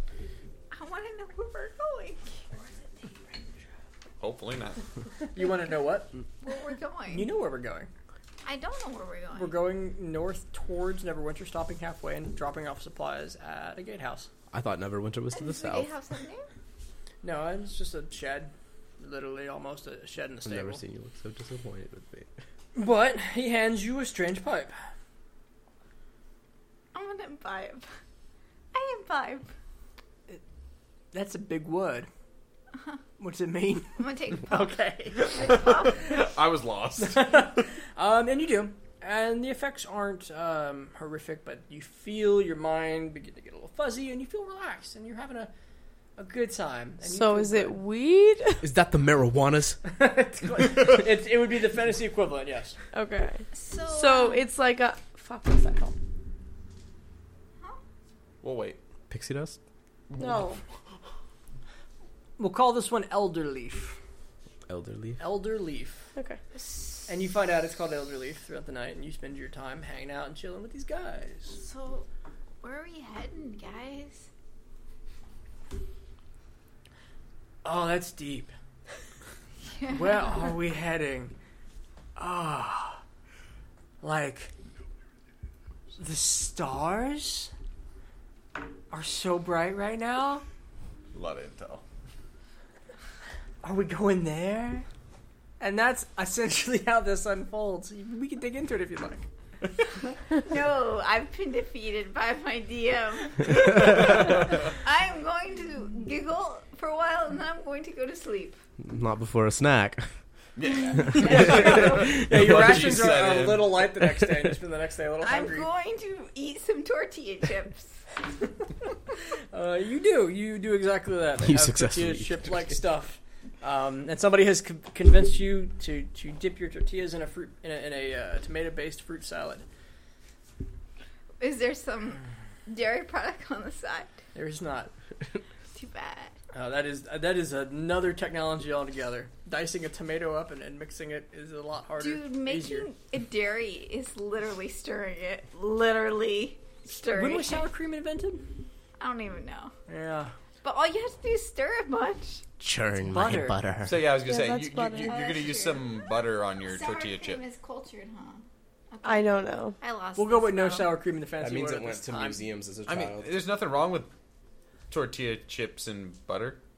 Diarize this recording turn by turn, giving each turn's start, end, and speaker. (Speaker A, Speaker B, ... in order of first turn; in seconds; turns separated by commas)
Speaker A: 0.7-2.5, Speaker B: 4.2-4.8, Speaker C: 5.3-6.1, Speaker A: 6.4-7.3, Speaker C: 7.1-7.9, Speaker A: 8.4-9.6, Speaker C: 9.3-14.3, Speaker D: 14.5-15.9, Speaker A: 15.3-16.5, Speaker C: 17.2-20.8, Speaker D: 20.4-22.3, Speaker C: 22.8-24.8, Speaker A: 26.9-27.9, Speaker A: 28.7-29.5, Speaker C: 31.1-32.1, Speaker C: 33.2-35.5, Speaker A: 34.0-36.2, Speaker B: 35.3-37.6, Speaker C: 37.0-45.5, Speaker C: 46.2-47.8, Speaker E: 47.0-48.7, Speaker D: 48.6-49.8, Speaker C: 49.9-52.8, Speaker E: 52.9-56.0, Speaker A: 53.5-54.5, Speaker B: 58.4-58.8, Speaker D: 59.1-59.6, Speaker B: 60.1-60.5, Speaker E: 60.2-60.6, Speaker C: 62.4-64.0, Speaker D: 64.7-65.2, Speaker C: 65.2-66.1, Speaker E: 66.2-66.4, Speaker A: 66.5-67.1, Speaker C: 67.1-71.6, Speaker A: 71.5-72.1, Speaker A: 72.6-74.3, Speaker C: 77.6-78.5, Speaker A: 79.7-80.4, Speaker C: 79.9-81.3, Speaker C: 82.2-83.0, Speaker C: 84.0-84.5, Speaker C: 86.0-87.5, Speaker C: 88.9-90.4, Speaker B: 91.1-91.8, Speaker C: 93.6-94.9, Speaker C: 95.6-99.2, Speaker A: 100.3-108.6, Speaker B: 103.9-104.3, Speaker D: 108.8-110.1, Speaker B: 110.6-113.8, Speaker A: 110.9-111.9, Speaker D: 111.1-112.9, Speaker C: 111.2-115.7, Speaker D: 114.0-114.5, Speaker A: 115.2-118.0, Speaker C: 119.5-129.7, Speaker D: 121.4-122.8, Speaker A: 131.4-134.2, Speaker C: 134.3-134.9, Speaker A: 135.8-136.3, Speaker C: 136.5-142.9, Speaker A: 142.0-147.7, Speaker C: 147.0-148.6, Speaker A: 149.0-149.7, Speaker C: 149.9-150.3, Speaker A: 150.6-152.4, Speaker D: 152.6-154.0, Speaker C: 153.1-153.6, Speaker B: 153.8-157.4, Speaker E: 154.2-155.2, Speaker A: 155.1-156.1, Speaker A: 156.6-160.9, Speaker E: 159.0-159.8, Speaker C: 160.2-162.4, Speaker D: 161.4-163.3, Speaker B: 162.9-164.1, Speaker B: 164.9-166.6